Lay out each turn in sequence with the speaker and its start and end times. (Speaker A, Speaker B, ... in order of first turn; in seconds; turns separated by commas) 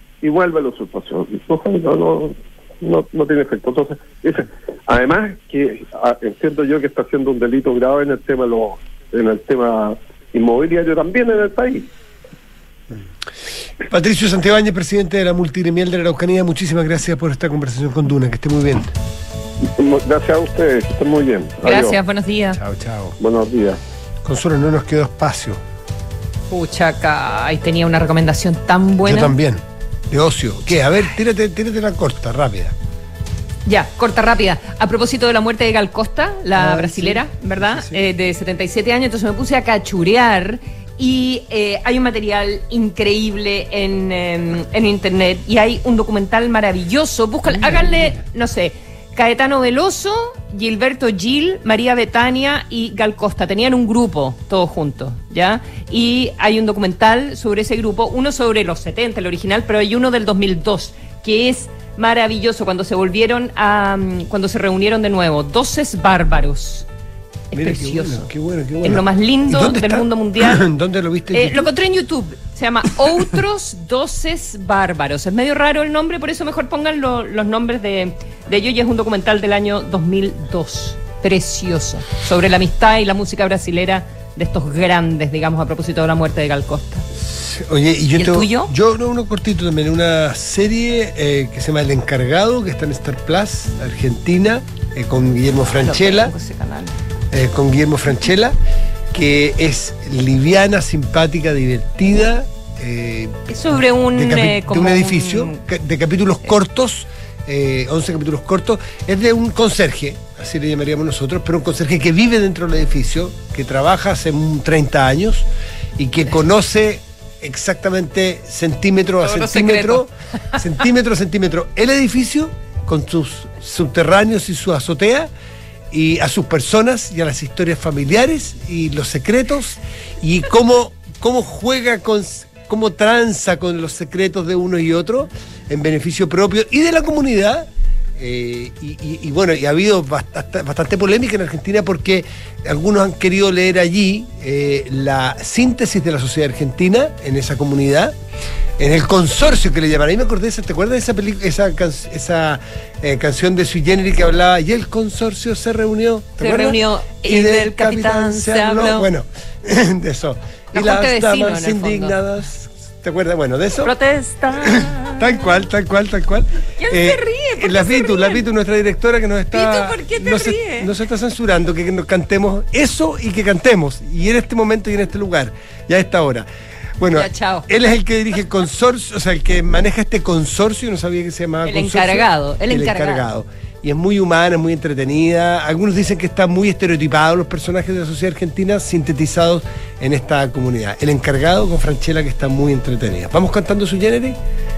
Speaker A: 0.2-11.9, Speaker B: 13.8-18.9, Speaker A: 19.6-22.0, Speaker C: 21.6-22.6, Speaker B: 22.5-23.1, Speaker A: 23.2-23.8, Speaker B: 24.2-25.6, Speaker C: 26.5-29.3, Speaker B: 29.0-32.7, Speaker C: 33.6-66.8, Speaker B: 36.6-38.0, Speaker C: 67.5-68.3, Speaker B: 67.5-71.7, Speaker C: 68.8-70.7, Speaker C: 71.3-87.0, Speaker B: 87.2-96.3, Speaker C: 88.2-88.7, Speaker C: 95.7-96.9, Speaker B: 97.3-98.5, Speaker B: 99.1-103.4, Speaker C: 103.5-105.6, Speaker B: 104.1-115.5, Speaker B: 116.0-125.3, Speaker C: 119.2-120.6, Speaker B: 125.9-137.7, Speaker B: 138.2-148.1, Speaker B: 148.8-163.9, Speaker C: 156.4-159.1, Speaker C: 160.7-162.2, Speaker C: 163.8-165.5, Speaker B: 164.6-176.5, Speaker C: 166.8-168.4, Speaker C: 169.5-170.9, Speaker B: 177.0-194.4, Speaker C: 177.1-177.7, Speaker C: 181.7-183.3